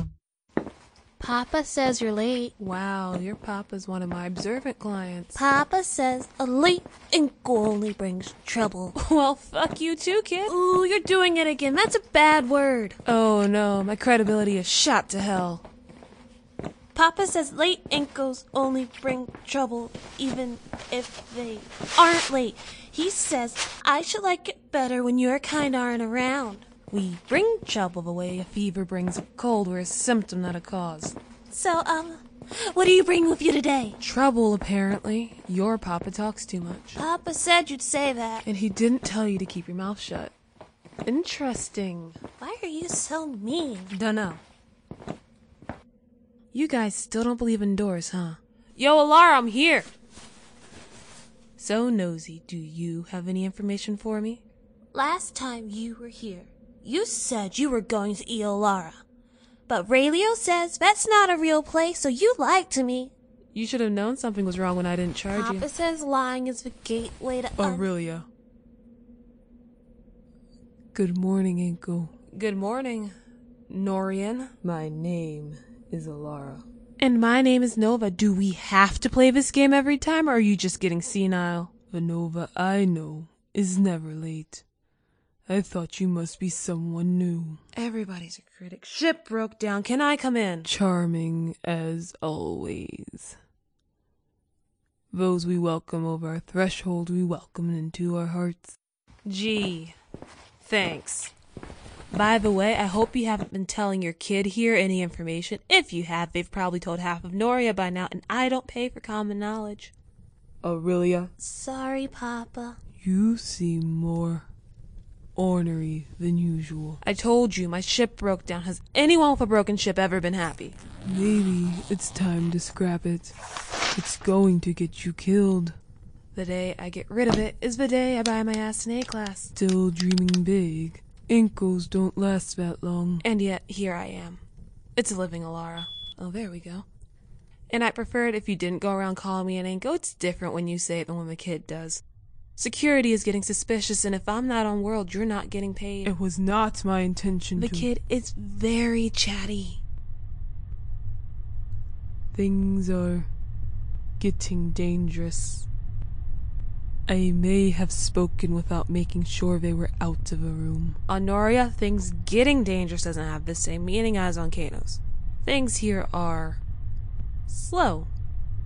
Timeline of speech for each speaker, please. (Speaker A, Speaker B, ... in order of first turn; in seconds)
Speaker A: 1.2-2.5, 5.3-8.9, 10.5-13.0, 16.9-22.4, 22.9-25.2, 31.5-34.0, 37.0-38.5, 42.4-43.9, 54.9-58.9, 59.7-63.1, 65.3-67.9, 111.4-112.8
Speaker B: 2.6-5.4, 8.9-10.6, 13.0-15.7, 22.0-23.6, 24.4-31.2, 34.0-37.0, 38.5-40.3, 41.1-42.2, 43.9-44.4, 46.5-49.9, 51.6-54.4, 63.5-65.7, 72.3-73.1, 73.7-74.6, 77.0-81.7, 87.8-90.7, 99.2-100.0, 100.6-101.3, 102.1-109.9, 117.0-120.8, 126.3-129.5, 133.2-134.4, 135.0-136.9, 137.7-142.0, 142.6-146.2, 147.6-149.8, 161.1-166.6, 167.5-168.1
Speaker C: 67.6-68.3, 70.9-72.2, 74.6-76.6, 81.9-84.6, 85.5-87.6, 90.7-93.4, 95.1-98.8, 110.6-111.3, 113.0-114.5, 115.4-117.0, 121.0-123.3, 123.9-125.8, 129.6-133.2, 146.1-147.9, 152.3-153.3, 154.2-155.7, 157.1-161.0